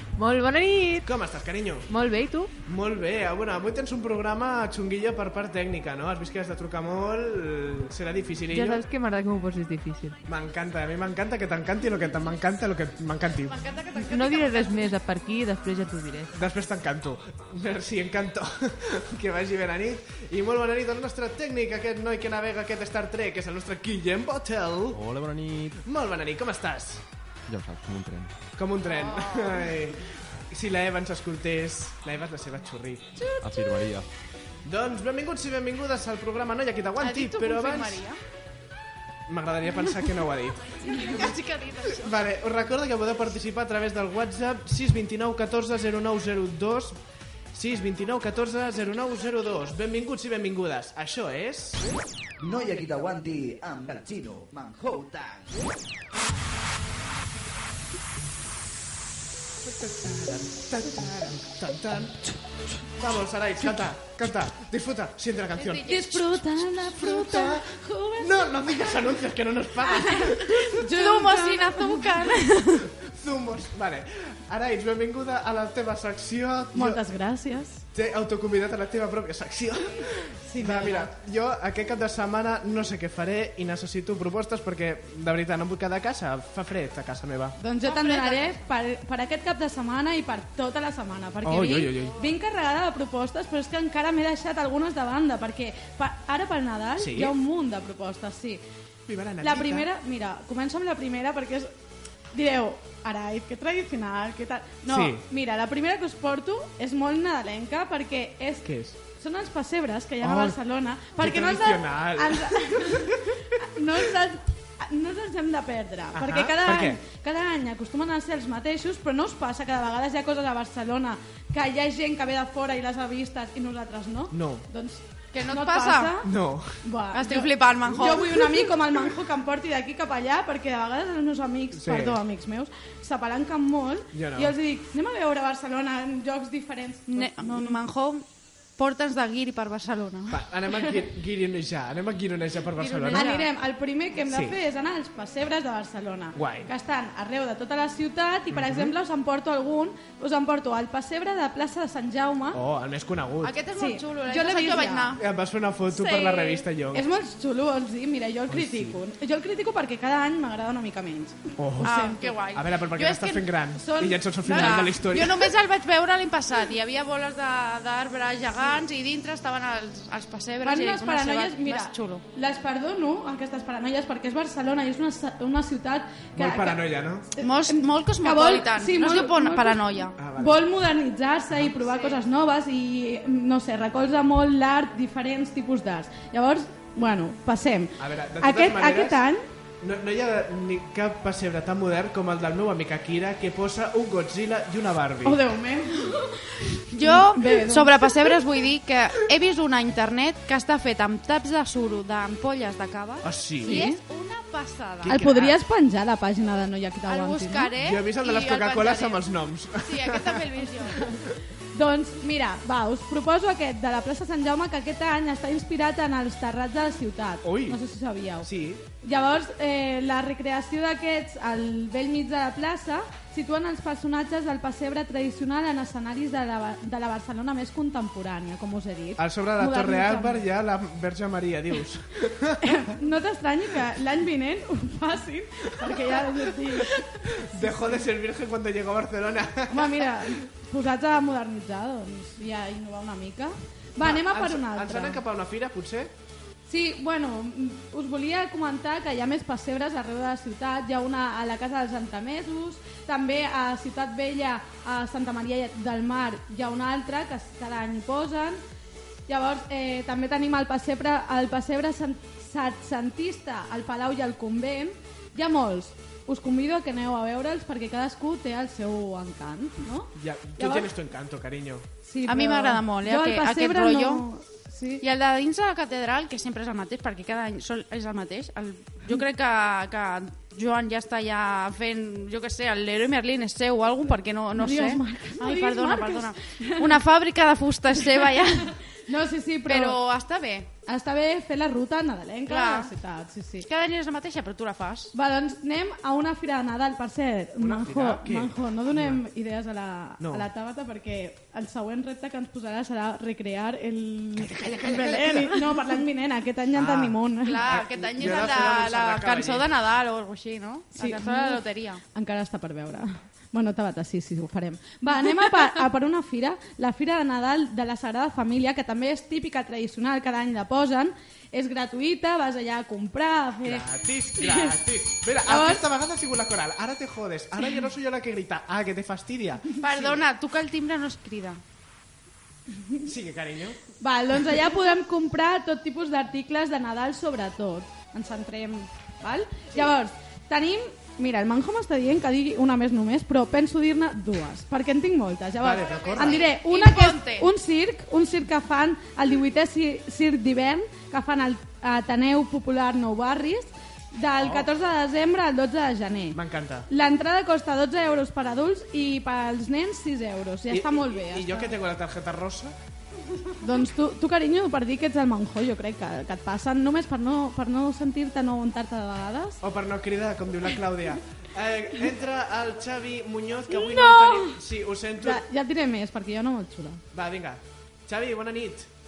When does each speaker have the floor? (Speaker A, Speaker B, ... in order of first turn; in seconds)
Speaker A: 0.1-1.1, 1.9-2.5, 8.5-10.2, 14.0-16.3
Speaker B: 1.0-1.9, 2.6-8.8, 10.2-13.5, 16.3-25.0, 25.8-27.0, 28.6-33.1, 34.6-38.0, 39.3-41.3, 42.0-47.0, 47.5-51.8, 59.6-62.2, 63.0-66.1, 66.8-67.6, 68.2-70.7, 73.0-77.0, 77.9-87.5, 91.4-92.2, 97.0-97.3, 99.1-99.9, 104.8-105.2, 108.6-109.0, 110.2-110.6, 111.2-113.2, 116.1-117.0, 124.3-124.7, 126.2-126.8, 131.7-132.2, 134.1-134.5, 140.3-143.3, 144.3-144.6, 146.3-146.7, 148.5-148.9, 152.5-153.5, 155.2-157.1, 158.5-159.0, 161.6-161.9, 162.5-165.5, 176.3-177.3, 180.2-180.7, 188.0-189.2, 189.8-195.4, 203.2-203.8, 205.0-205.6, 207.8-210.4, 217.4-217.8, 218.4-218.8, 229.2-232.9, 235.8-236.4, 237.0-240.2, 244.0-246.1, 270.1-271.9, 297.6-299.2, 300.2-300.5, 304.4-305.9, 306.7-309.6, 323.6-330.2, 333.0-333.8, 345.6-346.4, 354.4-354.7, 356.3-356.9, 360.7-362.7, 369.6-375.4, 377.1-378.9
Speaker C: 13.4-14.9, 28.8-29.7, 37.0-38.2, 40.8-42.3, 65.5-66.3, 70.9-72.7, 87.8-88.6, 125.3-126.2, 127.1-128.7, 137.1-138.2, 138.8-140.4, 142.8-143.4, 153.4-155.2, 155.9-156.6, 161.8-172.2, 177.4-180.1, 181.9-182.2, 196.9-205.3, 207.1-211.1, 272.2-274.2, 275.0-288.8, 289.7-290.7, 292.5-292.9, 293.6-295.1, 307.4-312.0, 329.8-331.6, 345.8-347.5
Speaker D: 24.9-25.8, 27.5-28.3, 33.4-34.1
Speaker E: 52.4-55.5
Speaker F: 65.8-68.9, 69.9-72.8, 76.7-77.8, 80.5-81.1, 87.6-98.6, 99.4-101.7, 102.3-126.3, 126.8-137.8, 143.1-152.6, 153.7-155.1, 156.9-162.2, 164.4-164.8, 170.6-189.4, 195.2-198.1, 203.6-204.0, 205.1-207.7, 211.7-218.5, 219.0-230.4, 232.6-237.9, 239.7-245.2, 246.7-258.6, 259.3-270.9, 272.0-275.0, 284.6-287.0, 289.1-290.0, 290.9-293.7, 295.1-307.6, 310.9-324.8, 325.5-325.8, 334.0-356.4, 356.9-361.7, 363.6-369.6, 373.7-374.6, 375.2-377.0